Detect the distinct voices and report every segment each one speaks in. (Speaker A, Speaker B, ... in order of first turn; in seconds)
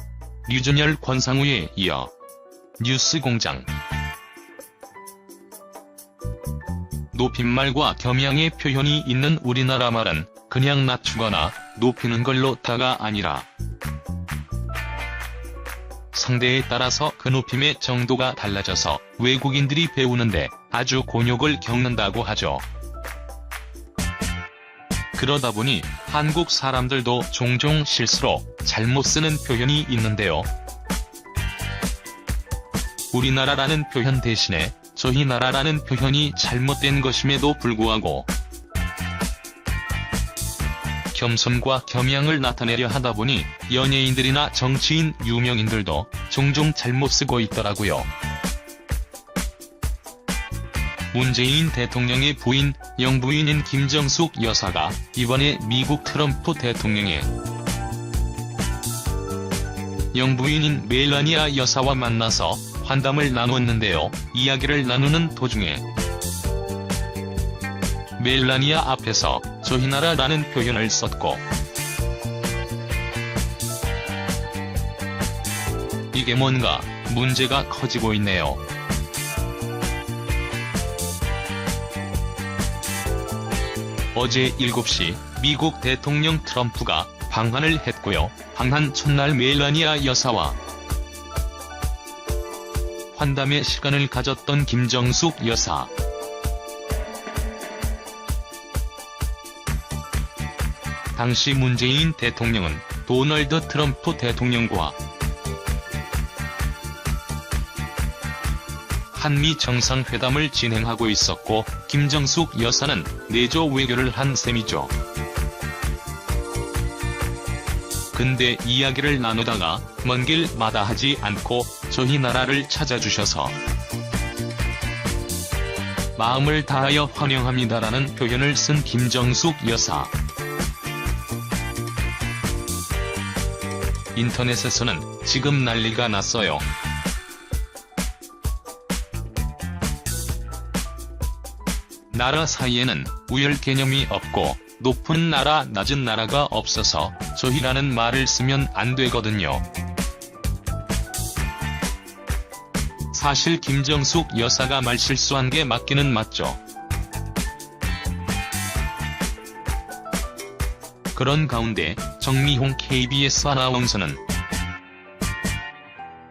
Speaker A: 0.5-2.1, 2.8-3.7, 7.1-13.5, 16.1-22.6, 25.1-30.5, 33.1-38.3, 41.1-48.1, 51.1-57.3, 60.1-65.8, 68.2-71.4, 76.1-78.6, 84.1-90.6, 93.1-95.9, 101.1-105.0, 109.1-114.9, 118.1-123.5, 126.2-130.1, 134.1-136.6, 142.1-149.6, 153.1-156.6, 161.1-164.2